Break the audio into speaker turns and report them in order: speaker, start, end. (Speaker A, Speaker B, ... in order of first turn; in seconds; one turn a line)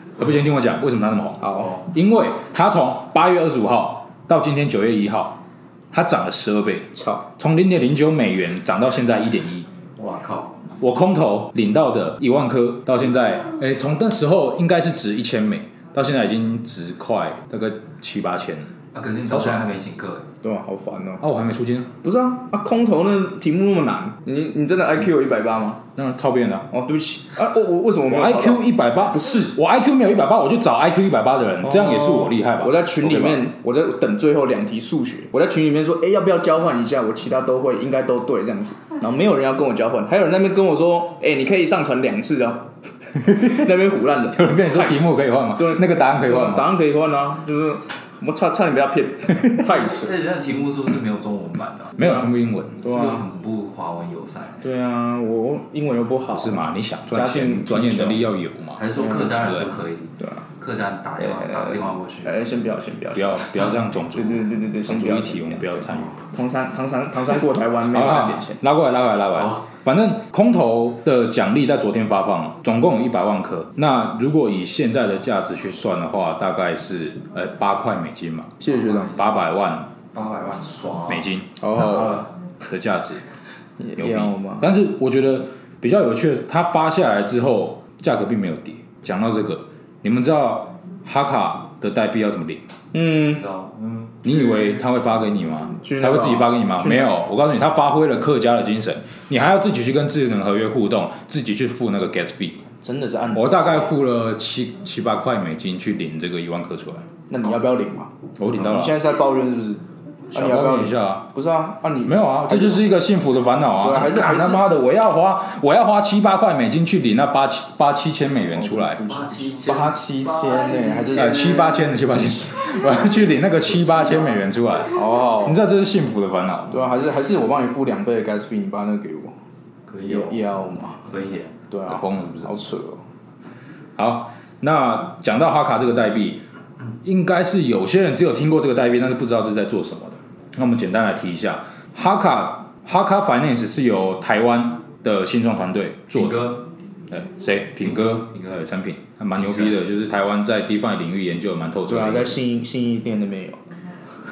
Speaker A: 0.2-5.4
Speaker B: 1.4-1.7
Speaker A: 5.9-9.7
Speaker B: 6.9-7.3
Speaker C: 10.0-10.6
Speaker A: 10.8-18.7
Speaker C: 18.9-20.3
Speaker A: 19.3-19.7
Speaker B: 20.4-21.2
Speaker A: 21.2-21.9
Speaker B: 22.0-25.8
Speaker A: 26.0-26.7
Speaker B: 26.7-29.4
Speaker A: 28.0-33.5
Speaker B: 31.6-42.6
Speaker B: 43.3-50.2
Speaker A: 44.3-46.7
Speaker C: 49.8-52.2
Speaker A: 52.0-52.9
Speaker B: 52.8-53.2
Speaker C: 52.8-54.7
Speaker B: 54.6-58.2
Speaker A: 56.3-59.8
Speaker C: 58.8-62.4
Speaker B: 58.9-59.4
Speaker B: 60.2-60.5
Speaker B: 61.2-68.6
Speaker A: 63.1-66.2
Speaker A: 67.8-78.6
Speaker B: 78.6-79.2
Speaker C: 78.7-79.4
Speaker A: 79.1-79.9
Speaker C: 80.1-81.3
Speaker A: 81.1-83.2
Speaker B: 81.6-82.2
Speaker B: 83.8-84.7
Speaker A: 84.0-92.6
Speaker B: 92.9-93.5
Speaker C: 93.3-94.9
Speaker A: 94.2-102.6
Speaker B: 95.8-97.1
Speaker B: 102.8-104.0
Speaker A: 103.3-107.1
Speaker B: 107.3-112.8
Speaker A: 108.4-109.0
Speaker A: 110.3-111.3
Speaker A: 112.0-119.0
Speaker B: 113.8-114.7
Speaker B: 118.5-121.8
Speaker C: 119.1-121.9
Speaker A: 121.1-126.9
Speaker C: 123.8-124.5
Speaker B: 124.8-125.6
Speaker B: 126.7-129.3
Speaker C: 129.9-130.5
Speaker B: 130.0-131.1
Speaker C: 131.1-131.5
Speaker B: 131.7-133.0
Speaker A: 131.9-132.6
Speaker A: 134.0-136.4
Speaker A: 137.0-146.6
Speaker C: 146.1-146.6
Speaker A: 147.1-152.4
Speaker C: 147.8-148.7
Speaker C: 149.4-149.8
Speaker B: 151.9-153.6